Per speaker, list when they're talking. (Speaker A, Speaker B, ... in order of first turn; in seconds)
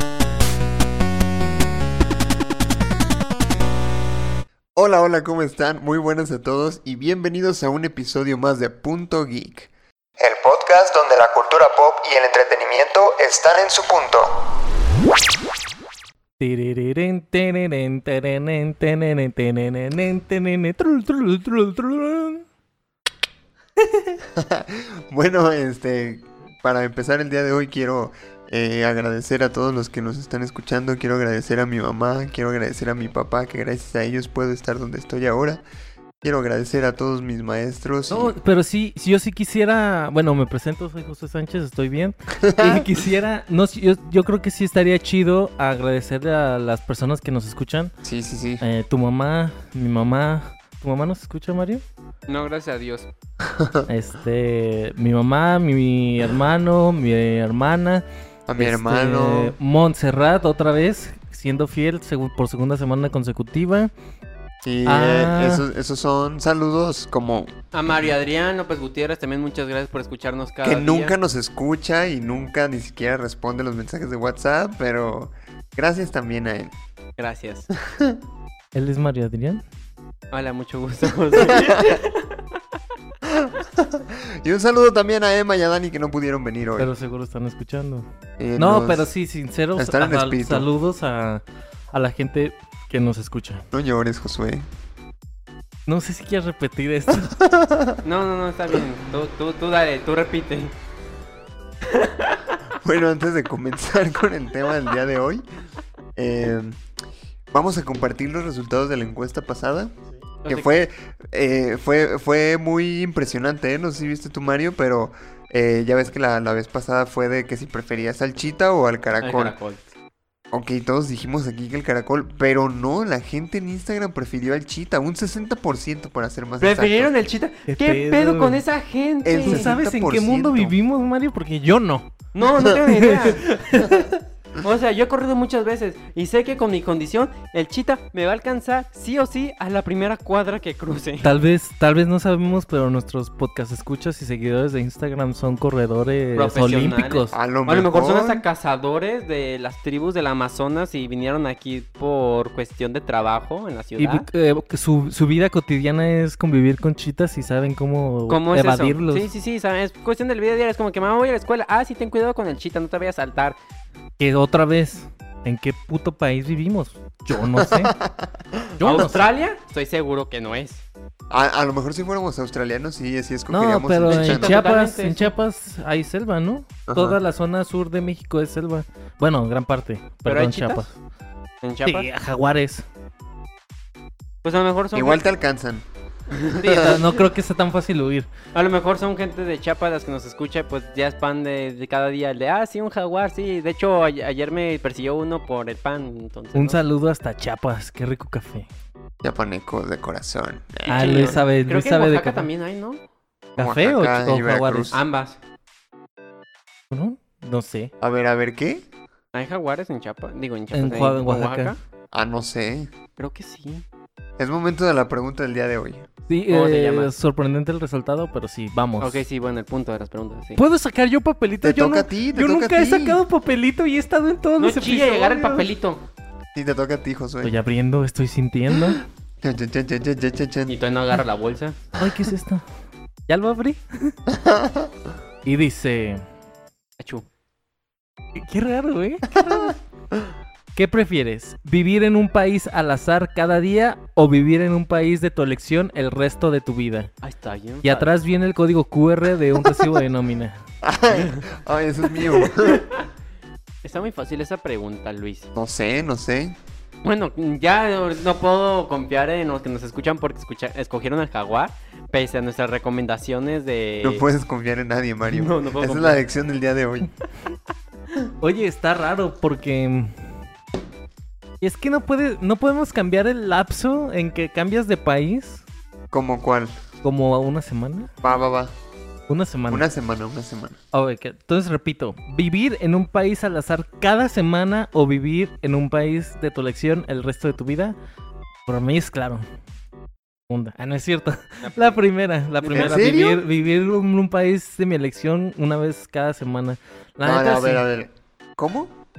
Speaker A: 4.8-14.3, 24.3-35.6, 36.2-38.3, 42.4-42.9, 48.0-48.6, 53.4-53.9, 58.5-59.5, 64.6-67.5, 70.6-76.7, 77.7-78.2, 81.4-82.0, 83.2-86.9, 88.4-89.1, 89.8-90.7, 93.7-94.6, 97.1-98.0, 102.8-105.4, 106.1-106.8, 107.5-109.9, 110.5-119.5, 120.5-127.1, 129.2-130.7, 147.3-148.4, 167.6-169.1, 171.3-174.6, 176.9-177.2, 184.9-185.8, 186.6-187.0, 199.2-201.3, 203.6-205.0, 208.0-208.8, 212.1-212.9, 214.4-216.1, 221.6-223.2, 226.5-227.5, 229.4-230.7, 234.3-234.9, 239.4-240.3, 250.8-252.8, 255.5-256.6, 264.0-267.1, 276.1-276.7, 278.2-278.7, 279.7-280.8, 292.7-293.4, 297.2-298.9
Speaker B: 16.4-22.4, 38.1-47.9, 48.6-51.8, 53.9-58.0, 58.6-63.9, 64.8-65.6, 78.7-79.6, 86.8-88.0, 88.6-93.6, 95.9-97.3, 127.7-128.6, 129.4-132.2, 132.9-134.2, 141.2-147.3, 154.0-159.3, 164.2-167.9, 168.8-169.2, 173.5-180.9, 181.8-182.8, 186.7-188.3, 196.5-198.7, 200.9-202.5, 203.6-204.9, 206.9-207.9, 210.7-211.7, 216.3-219.2, 220.6-225.7, 227.4-229.0, 232.0-232.6, 233.3-234.1, 235.4-236.2, 238.3-239.8, 240.7-247.1, 247.8-250.6, 268.4-270.3, 271.6-275.6, 277.0-278.1, 279.3-279.9, 280.9-287.9, 288.6-289.4, 290.5-297.8
Speaker C: 52.3-53.1, 67.7-71.1, 77.2-77.7, 80.3-82.4, 98.0-100.7, 101.9-102.6, 119.2-119.8, 126.6-129.7, 132.3-133.6, 134.6-141.3, 146.3-154.2, 158.3-163.6, 168.8-170.8, 174.1-175.3, 180.2-180.8, 181.6-182.1, 184.4-185.2, 186.3-187.0, 188.5-196.8, 200.8-203.0, 204.9-205.3, 209.3-211.8, 213.2-213.8, 216.5-217.1, 219.0-220.6, 224.6-226.0, 230.7-231.8, 237.0-237.2, 247.2-248.1, 251.1-251.5, 252.2-253.1, 253.8-255.5, 257.0-264.2, 265.3-266.2, 291.6-292.0, 292.6-293.1